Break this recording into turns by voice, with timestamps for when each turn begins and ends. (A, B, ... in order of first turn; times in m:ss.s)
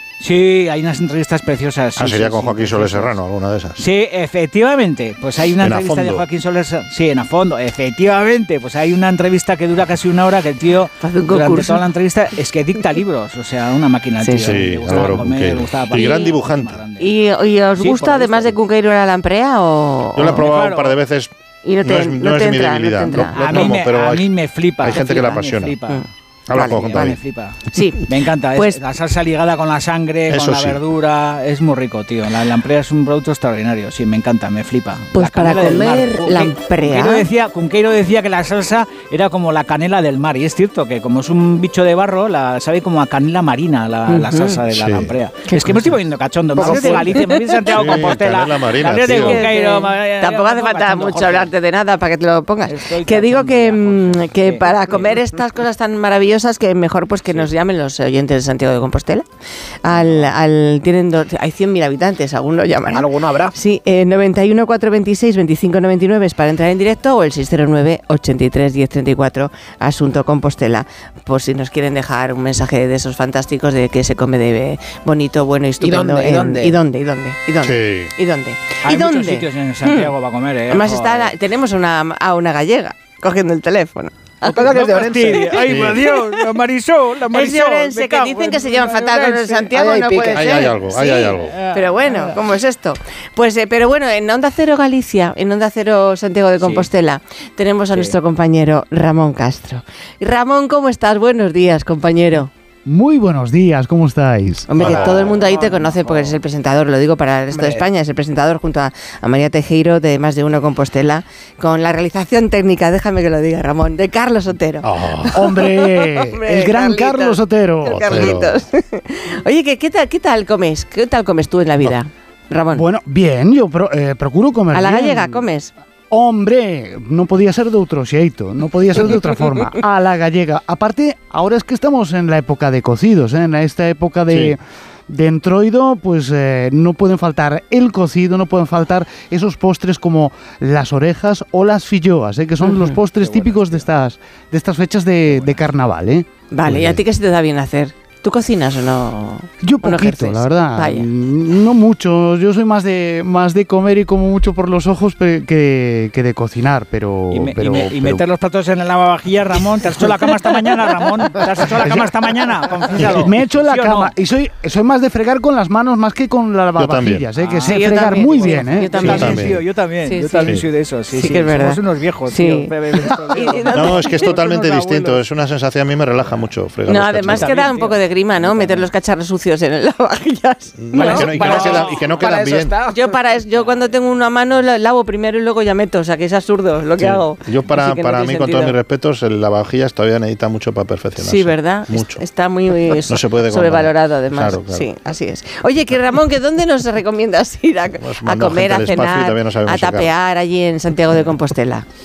0:00.2-0:03.2 A
0:02.0-0:03.8 B
0:03.8-0:17.1 A
0:05.6-0:06.2 B
0:11.0-0:11.8 C
0:14.2-0:15.2 C
0:14.4-0:16.8 B
0:15.9-0:16.3 C
0:17.0-0:20.4 C
0:17.8-0:18.6 A
0:20.2-0:21.3 B
0:20.3-0:21.0 A
0:21.6-0:23.8 C
0:21.8-0:24.3 B
0:23.3-0:26.0 A
0:24.8-0:25.8 B
0:24.8-0:27.1 C
0:26.5-0:27.2 B
0:26.6-0:51.5 A
0:27.7-0:28.8 C
0:30.3-0:30.8 B
0:35.1-0:37.3 C
0:44.1-0:44.6 C
0:44.7-0:45.1 B
0:45.5-0:45.8 C
0:46.5-0:47.2 D
0:46.6-0:48.0 C
0:47.7-0:49.4 B
0:49.0-0:59.3 C
0:52.7-0:55.1 A
0:59.8-1:20.1 C
0:59.9-1:00.3 A
1:02.9-1:03.5 D
1:15.8-1:16.8 D
1:17.6-1:18.1 B
1:18.8-1:21.3 A
1:20.7-1:24.6 C
1:24.4-1:25.6 D
1:24.6-1:29.7 A
1:25.7-1:26.0 B
1:27.3-1:42.5 C
1:29.7-1:30.7 D
1:30.3-1:31.6 B
1:31.4-1:32.4 A
1:36.6-1:36.9 A
1:42.8-1:44.8 E
1:44.7-2:02.8 C
1:44.8-1:45.3 B
1:45.3-1:46.3 D
1:47.5-1:47.8 D
1:54.8-1:55.4 B
1:55.3-1:58.4 E
1:57.9-1:58.5 B
2:02.7-2:05.4 E
2:04.7-2:05.7 C
2:06.1-2:26.9 E
2:22.6-2:23.0 C
2:23.2-2:23.9 A
2:25.3-2:25.6 A
2:26.5-2:31.1 C
2:26.7-2:26.9 B
2:29.6-2:38.2 E
2:37.3-2:44.1 A
2:41.7-2:42.1 E
2:42.9-2:49.2 E
2:46.8-2:47.3 B
2:47.4-2:55.2 A
2:47.7-2:50.5 C
2:49.0-2:49.6 B
2:51.1-2:52.7 C
2:53.3-2:54.3 C
2:53.7-2:57.5 B
2:56.9-3:01.7 C
2:57.3-2:58.9 A
3:00.8-3:02.8 B
3:01.0-3:03.0 D
3:01.0-3:02.1 A
3:02.9-3:08.7 C
3:03.5-3:03.8 A
3:07.0-3:12.2 B
3:11.2-3:21.8 C
3:12.9-3:14.9 B
3:18.0-3:20.1 B